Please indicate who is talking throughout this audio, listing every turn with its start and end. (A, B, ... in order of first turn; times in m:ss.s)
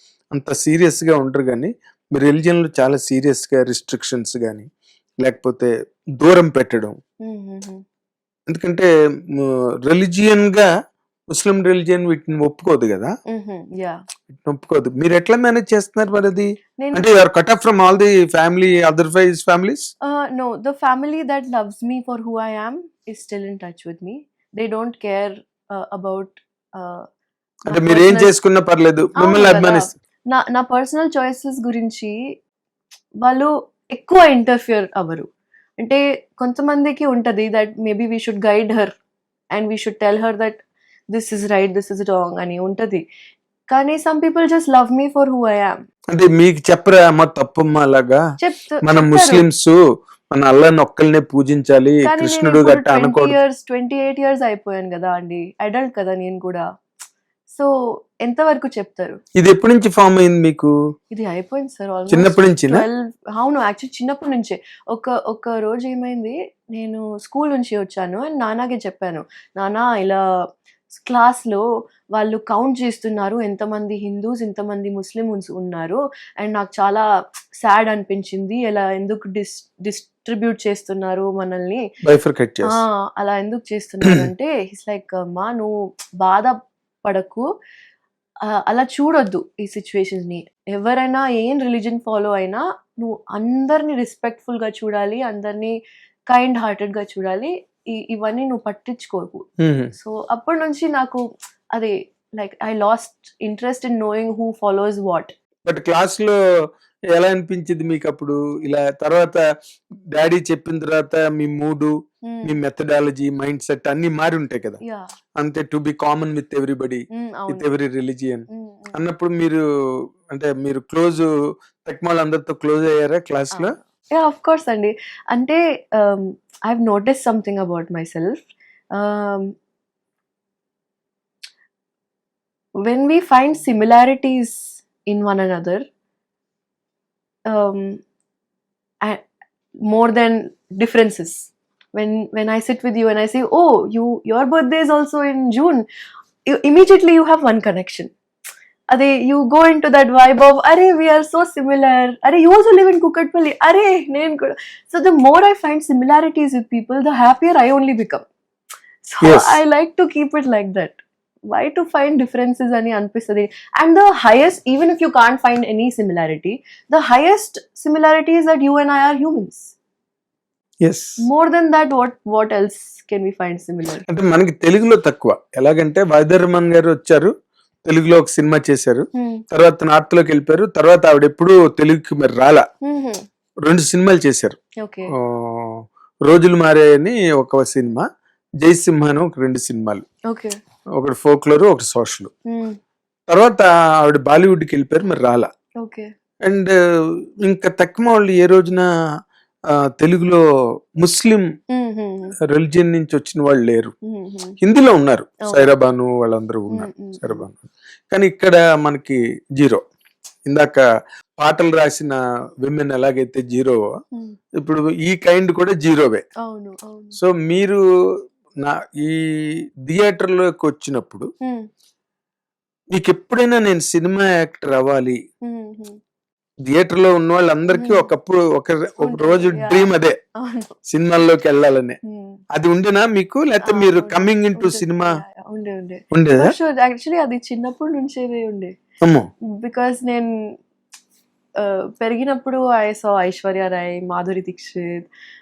0:00.3-0:04.7 A
0:05.2-0:07.0 A
0:07.2-0:07.8 B
0:08.5-0:10.7 A
0:11.3-0:13.1 A
0:13.3-0:14.0 B
0:14.3-0:19.9 A
0:16.8-0:17.0 B
0:20.0-0:27.0 B
0:27.7-0:29.9 A
0:27.7-0:28.3 B
0:29.2-0:32.3 B
0:33.2-0:35.3 B
0:35.8-0:38.9 B
0:39.5-0:40.6 B
0:41.1-0:43.0 B
0:43.7-0:45.8 B
0:46.1-0:48.2 A
0:48.4-0:49.4 B
0:48.8-0:49.8 A
0:50.3-0:53.4 A
0:52.0-0:56.6 B
0:58.2-0:59.2 B
0:59.4-1:00.7 A
1:01.1-1:10.2 B
1:02.1-1:02.8 A
1:10.9-1:11.6 B
1:12.1-1:17.1 B
1:17.6-1:21.8 B
1:22.0-1:22.8 A
1:22.7-1:27.4 B
1:28.5-1:35.7 B
1:36.3-1:39.4 B
1:39.6-1:39.9 A
1:40.0-1:41.2 B
1:41.7-1:45.3 B
1:45.6-1:46.3 A
1:47.1-1:49.4 A
1:50.1-1:51.9 A
1:52.2-1:52.5 B
1:52.4-1:54.8 A
1:54.8-1:55.1 B
1:55.4-1:59.6 A
1:57.1-1:57.7 B
1:58.5-1:59.0 B
2:00.3-2:01.3 A
2:01.8-2:03.8 A
2:03.5-2:09.5 B
2:12.8-2:15.8 B
2:17.5-2:18.0 B
2:19.9-2:25.9 B
2:26.5-2:28.1 B
2:28.9-2:38.2 B
2:39.1-2:49.7 B
2:39.2-2:39.6 A
2:50.8-2:51.2 A
2:51.2-2:54.0 B
2:54.1-2:57.3 A
2:57.9-3:02.6 A
2:59.1-2:59.4 B
3:02.8-3:03.2 B
3:03.6-3:04.6 A
3:04.8-3:05.1 B
3:05.1-3:08.0 A
3:08.6-3:10.0 A
3:10.3-3:10.6 B
3:11.0-3:12.3 A
3:12.5-3:12.8 B
3:13.3-3:15.5 A
3:15.8-3:16.1 B
3:16.4-3:16.7 A
3:17.4-3:18.8 A
3:20.0-3:20.4 A
3:21.0-3:21.5 A
3:21.7-3:22.3 B
3:22.5-3:23.9 A
3:24.0-3:24.6 B
3:24.6-3:29.8 A
3:26.7-3:27.4 B
3:30.5-3:30.8 A
3:31.4-3:33.8 A
3:34.6-3:36.2 A
3:36.4-3:37.2 B
3:37.2-3:37.8 A
3:38.6-3:39.2 A
3:39.9-3:41.3 A
3:42.9-3:45.2 A
3:45.4-3:46.0 B
3:46.7-3:50.2 A
3:47.7-3:48.1 B
3:49.0-3:50.7 B
3:50.9-3:52.0 A
3:52.0-3:52.4 B
3:52.5-3:55.1 A
3:53.6-3:58.8 B
3:56.1-3:56.5 A
3:59.0-3:59.3 A
3:59.6-4:00.3 B
4:01.6-4:05.1 B